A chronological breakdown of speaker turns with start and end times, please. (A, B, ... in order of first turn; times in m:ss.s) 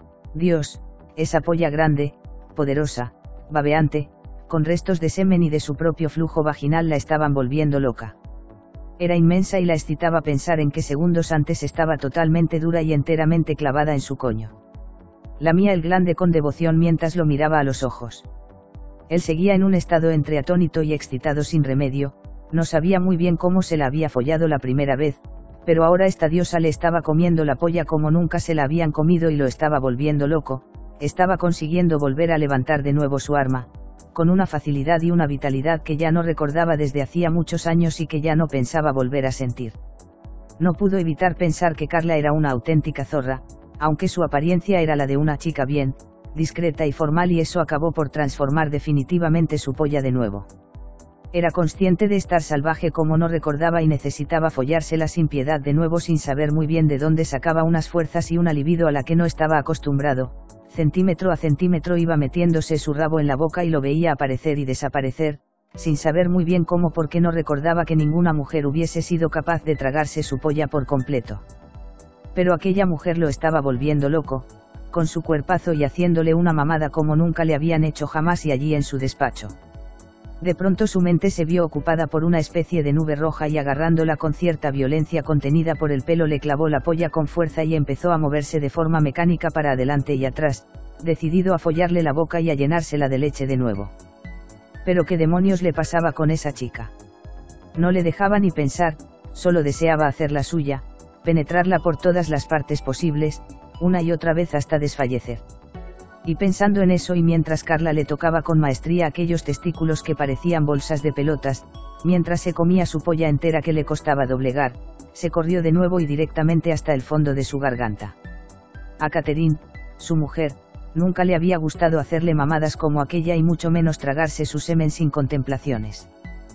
0:00.3-0:08.1 A
0:09.0-0:14.5 A
0:15.4-0:18.2 A
0:19.1-0:39.8 A
0:40.6-0:50.5 A
0:51.3-1:11.4 A
1:12.3-1:19.5 A
1:20.4-1:33.9 A
1:34.8-1:36.9 A
1:37.7-1:45.4 A
1:46.2-1:58.2 A
1:59.0-2:06.1 A